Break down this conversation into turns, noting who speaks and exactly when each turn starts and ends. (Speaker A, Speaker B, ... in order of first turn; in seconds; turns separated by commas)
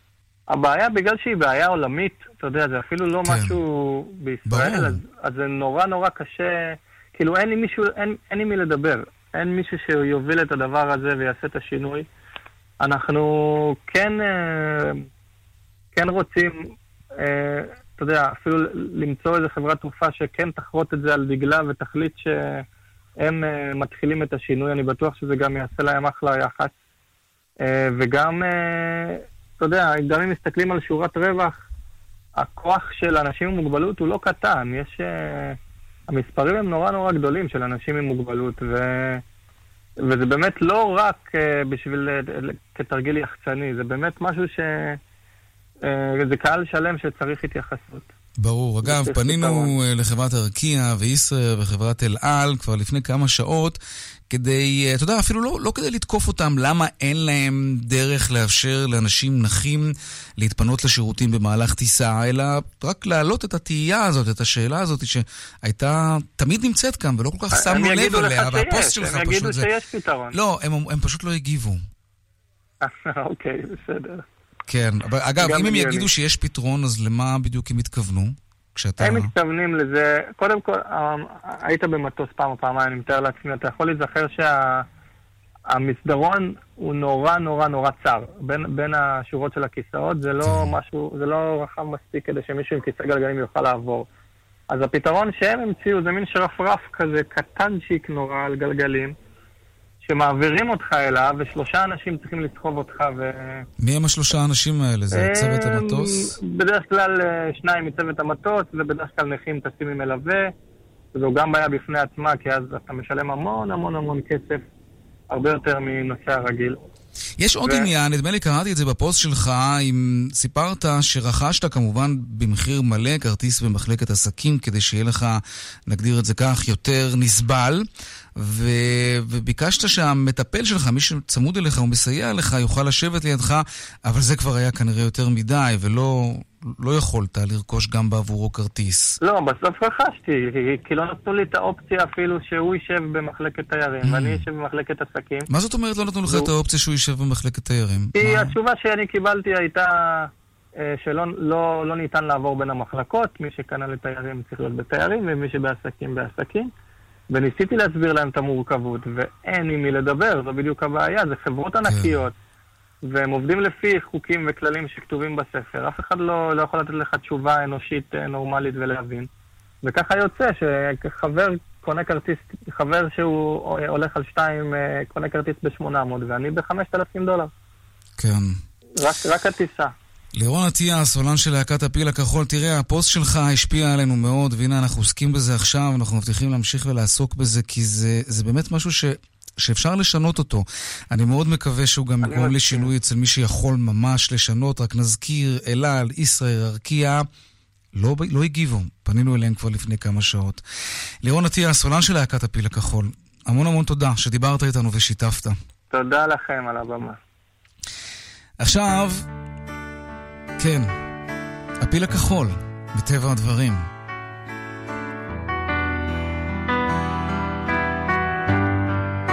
Speaker A: 0.5-12.1, Speaker B: 3.2-3.6, Speaker B: 4.5-5.0, Speaker A: 12.8-15.0, Speaker A: 15.9-22.6, Speaker A: 23.2-26.7, Speaker A: 27.6-31.6, Speaker A: 32.4-35.6, Speaker A: 36.1-39.2, Speaker A: 40.0-45.0, Speaker A: 45.8-48.1, Speaker B: 48.4-53.8, Speaker A: 48.8-49.7, Speaker B: 54.3-69.7, Speaker A: 67.5-70.3, Speaker B: 70.3-71.8, Speaker A: 72.8-74.2, Speaker B: 74.7-79.3, Speaker A: 75.4-76.1, Speaker A: 79.0-84.8, Speaker A: 85.7-94.1, Speaker B: 90.4-90.8, Speaker A: 94.7-99.1, Speaker A: 100.0-103.7, Speaker B: 103.8-106.3, Speaker A: 105.2-110.5, Speaker A: 111.1-114.6, Speaker A: 115.3-116.8, Speaker B: 117.4-139.2, Speaker A: 139.2-145.5, Speaker B: 144.0-144.4, Speaker B: 145.5-148.6, Speaker A: 148.2-156.7, Speaker A: 157.3-162.3, Speaker B: 161.8-162.2, Speaker A: 163.1-169.3, Speaker A: 169.8-177.5, Speaker B: 178.2-178.6, Speaker A: 179.0-179.9, Speaker B: 180.3-197.3, Speaker A: 192.2-192.9, Speaker B: 197.9-200.6, Speaker B: 201.2-205.6, Speaker A: 205.9-207.2, Speaker B: 208.6-209.2, Speaker B: 210.6-210.9, Speaker B: 211.8-213.9